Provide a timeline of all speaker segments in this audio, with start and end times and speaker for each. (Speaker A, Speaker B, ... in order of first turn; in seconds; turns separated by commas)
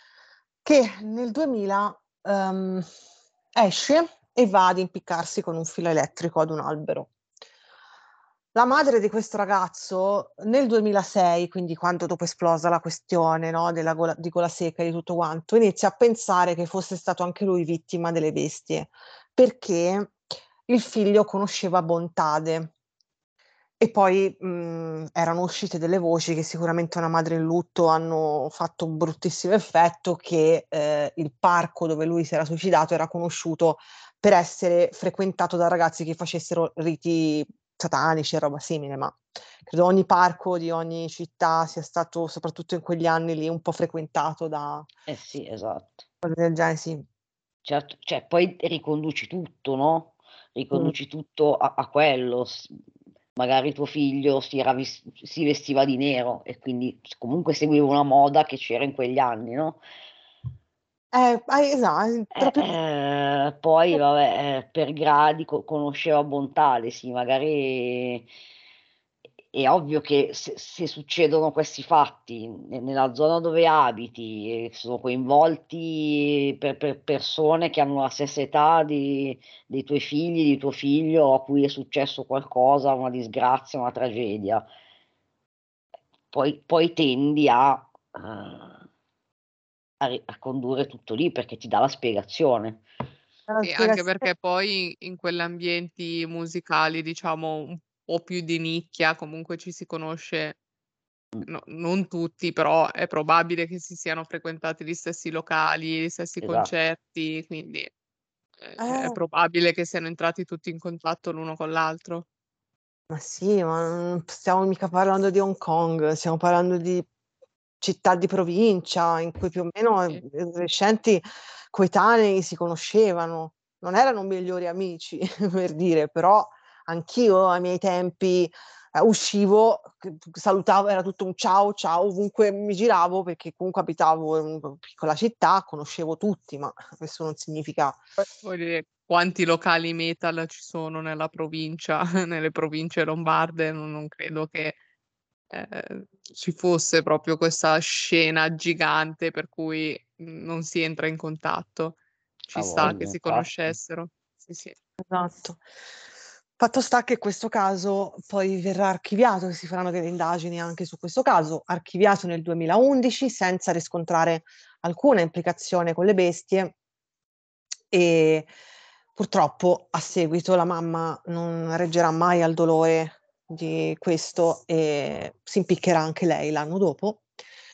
Speaker A: 0.6-2.9, Speaker A: 3.5-7.1, Speaker A: 8.5-22.7, Speaker A: 23.8-44.9, Speaker B: 45.1-46.0, Speaker A: 46.2-47.0, Speaker B: 47.6-52.7, Speaker B: 53.4-59.8, Speaker A: 61.1-62.7, Speaker B: 62.4-68.3, Speaker B: 69.5-84.7, Speaker B: 86.3-88.8, Speaker B: 90.0-92.8, Speaker A: 93.5-94.3, Speaker C: 93.6-100.6, Speaker C: 101.5-107.9, Speaker B: 106.4-106.7, Speaker C: 108.6-112.2, Speaker A: 108.8-109.2, Speaker A: 113.1-117.1, Speaker A: 117.8-138.0, Speaker C: 138.2-144.8, Speaker C: 145.5-152.0, Speaker C: 152.5-154.7, Speaker B: 152.6-153.7, Speaker A: 155.0-155.6, Speaker A: 156.6-166.7, Speaker A: 167.9-168.5, Speaker A: 169.2-177.3